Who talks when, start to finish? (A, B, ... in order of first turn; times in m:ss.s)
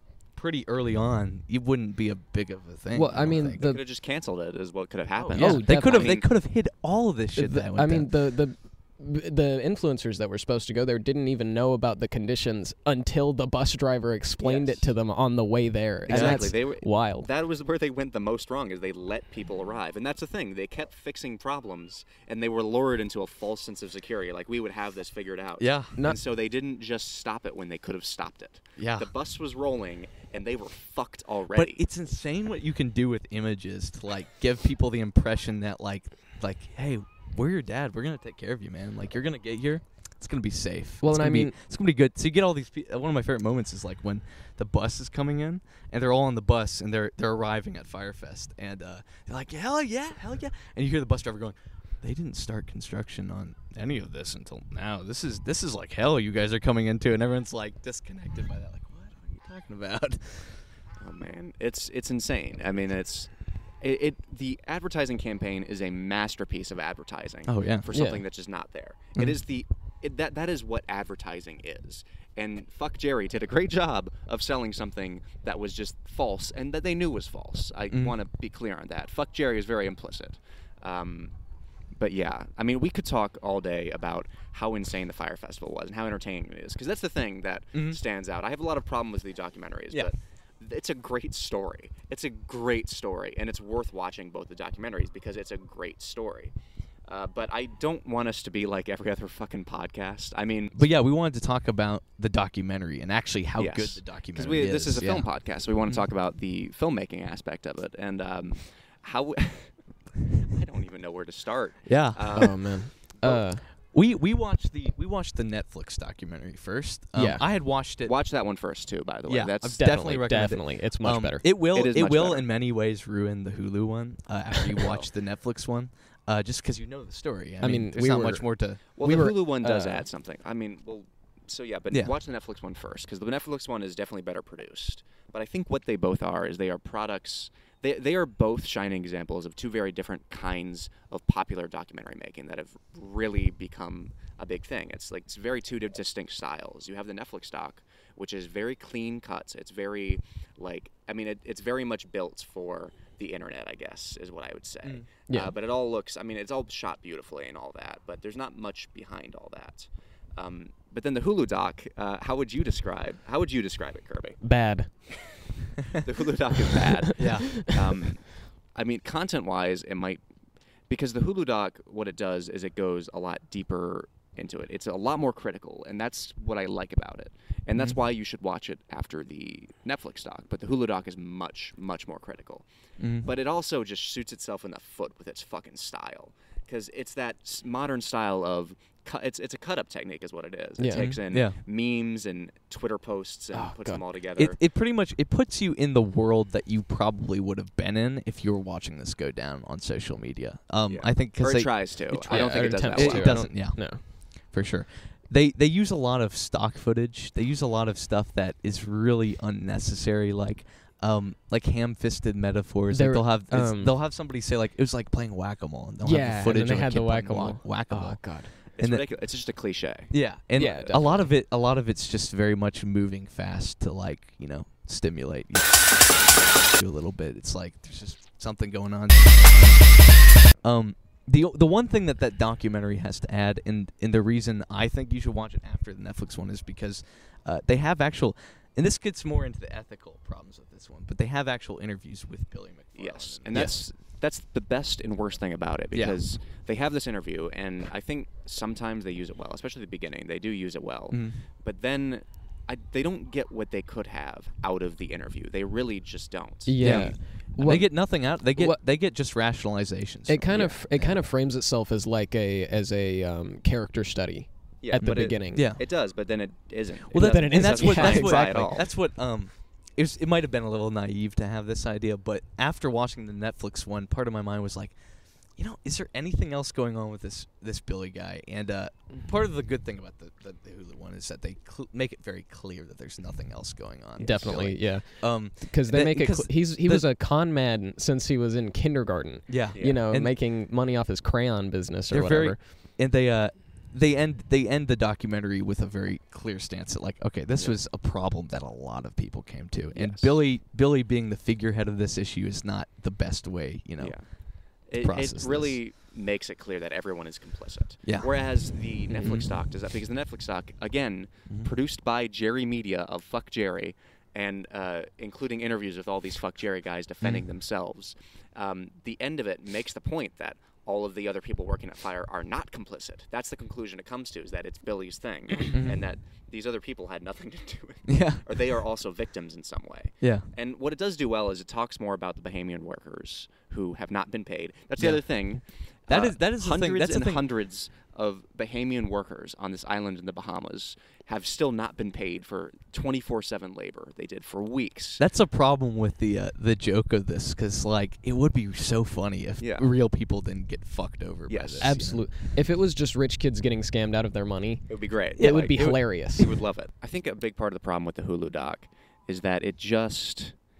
0:00.4-0:03.6 A
0:02.9-0:03.8 B
0:03.5-0:06.3 C
0:05.2-0:08.1 A
0:05.3-0:06.2 B
0:07.4-0:17.3 B
0:14.4-0:14.9 C
0:16.1-0:31.8 C
0:16.1-0:16.5 A
0:25.6-0:26.1 A
0:28.8-0:29.1 A
0:31.5-1:00.6 A
0:41.0-0:41.6 B
1:01.0-1:21.3 C
1:07.5-1:07.9 A
1:07.9-1:08.2 B
1:17.9-1:18.2 A
1:22.0-1:36.5 C
1:27.7-1:28.0 A
1:37.1-1:40.8 C
1:40.7-1:45.3 A
1:43.6-1:49.8 C
1:50.4-1:52.8 C
1:51.9-1:58.2 A
1:52.3-1:53.7 B
1:57.2-1:57.4 B
1:58.0-1:59.8 C
1:59.3-2:09.3 A
1:59.7-2:01.5 B
2:01.7-2:02.5 C
2:07.6-2:08.5 B
2:09.0-2:44.4 C
2:09.0-2:10.0 B
2:35.3-2:35.5 B
2:44.4-2:44.9 B
2:45.8-2:50.2 C
2:47.2-2:47.6 A
2:47.2-2:47.4 B
2:50.9-3:02.7 C
3:03.0-3:03.3 A
3:03.2-3:14.6 C
3:10.8-3:11.2 B
3:10.9-3:11.6 A
3:13.5-3:14.0 B
3:14.4-3:39.1 A
3:20.9-3:23.5 C
3:22.3-3:24.0 B
3:32.9-3:34.0 B
3:36.0-3:38.5 B
3:38.8-3:41.2 C
3:40.1-4:03.8 A
3:40.6-3:41.2 B
4:03.0-4:17.2 C
4:05.9-4:06.2 A
4:11.1-4:11.4 A
4:16.7-4:18.8 B
4:16.8-4:21.3 A
4:20.3-4:25.7 B
4:20.5-4:20.8 C
4:24.8-4:28.9 C
4:25.0-4:25.8 A
4:27.1-4:35.0 A
4:27.2-4:28.8 B
4:35.6-4:47.1 A
4:44.2-4:44.6 C
4:44.2-4:52.6 B
4:49.5-4:50.4 A
4:49.8-4:50.0 C
4:52.1-5:04.2 A
4:59.9-5:00.3 C
5:04.0-5:45.2 C
5:05.0-5:05.8 A
5:08.0-5:08.3 A
5:09.2-5:09.4 B
5:09.2-5:09.5 A
5:25.7-5:26.0 A
5:28.1-5:28.4 A
5:30.2-5:30.5 A
5:35.0-5:35.4 A
5:36.1-5:37.5 A
5:45.2-5:52.3 A
5:49.6-5:49.9 C
5:51.5-5:52.0 C
5:51.8-5:56.6 B
5:54.9-6:00.6 C
5:55.4-5:56.1 A